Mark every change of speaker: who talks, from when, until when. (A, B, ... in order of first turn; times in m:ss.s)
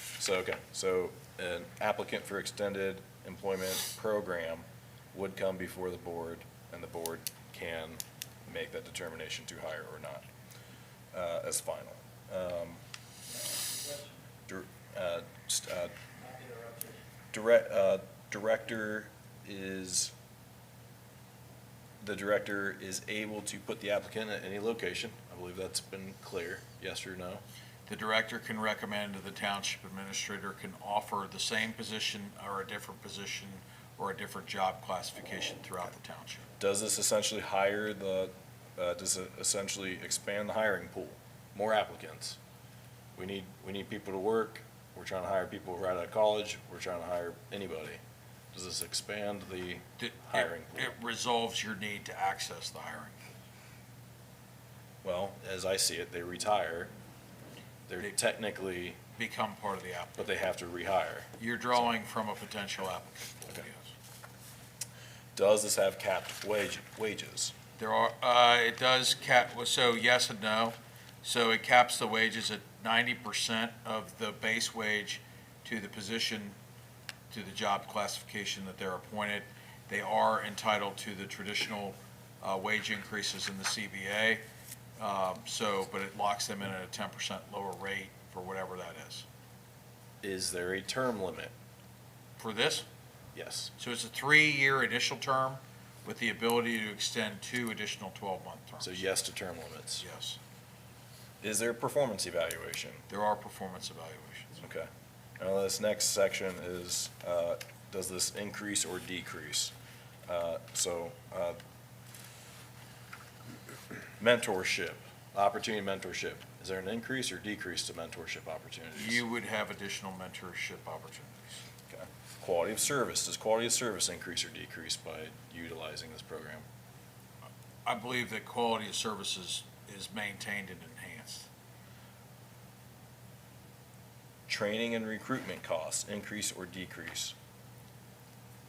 0:00.2-0:10.2 A
0:11.1-0:12.8 A
0:14.5-0:15.9 A
0:17.3-0:20.1 A
0:22.0-0:27.4 A
0:27.9-0:36.5 B
0:36.6-0:42.4 A
0:43.1-0:48.0 A
0:48.5-0:51.0 A
0:50.0-0:53.2 B
0:55.0-0:56.9 A
0:57.9-0:59.0 A
0:59.2-1:00.3 B
1:00.2-1:01.3 A
1:01.4-1:03.9 B
1:05.3-1:07.5 A
1:07.8-1:16.5 B
1:17.3-1:24.4 B
1:25.0-1:29.2 B
1:30.2-1:31.5 A
1:32.4-1:32.8 B
1:33.3-1:33.7 A
1:33.8-1:39.0 B
1:38.8-1:40.0 A
1:40.0-1:40.4 B
1:41.4-1:43.0 A
1:43.1-1:44.6 B
1:44.6-1:44.9 A
1:45.4-1:49.7 A
1:50.3-1:51.6 A
1:54.2-1:59.2 A
1:59.0-2:01.6 B
2:01.9-2:06.6 A
2:07.8-2:11.5 B
2:14.5-2:17.3 A